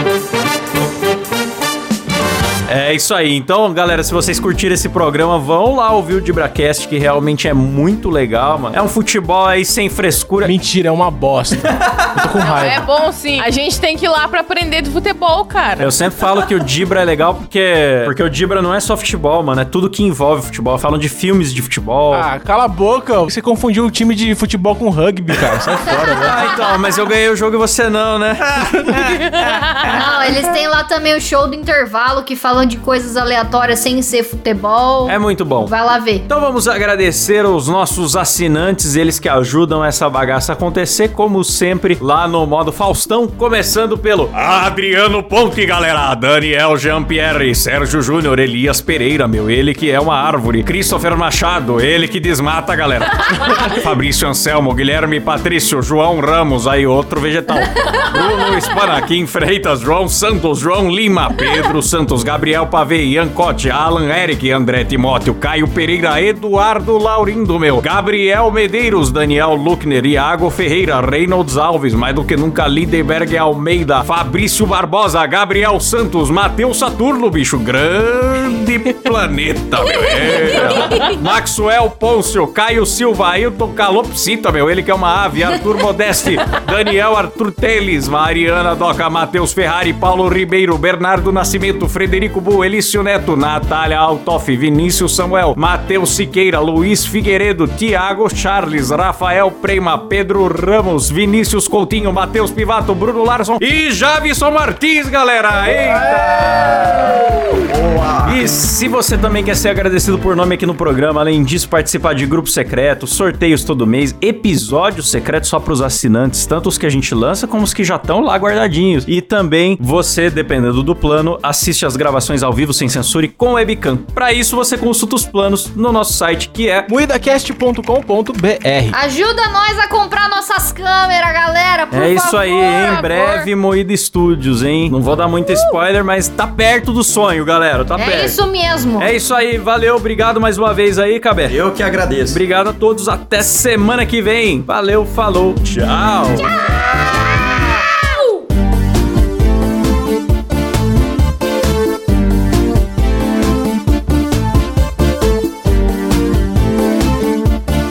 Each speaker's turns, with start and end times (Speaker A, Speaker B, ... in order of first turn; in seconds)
Speaker A: 2.7-10.6, 15.8-22.3, 26.2-30.3, 35.1-35.7, 36.3-107.6, 108.2-126.9, 131.9-138.4, 139.0-141.6, 142.3-147.5
Speaker B: 10.4-12.8, 22.1-26.4, 126.9-129.0
Speaker C: 11.6-12.3, 106.7-107.1, 107.7-108.4, 141.5-142.4
Speaker D: 12.4-15.9, 29.3-29.9, 132.4-133.5
Speaker E: 29.9-36.3, 128.9-132.7, 135.4-135.7, 137.9-139.1, 146.4-147.5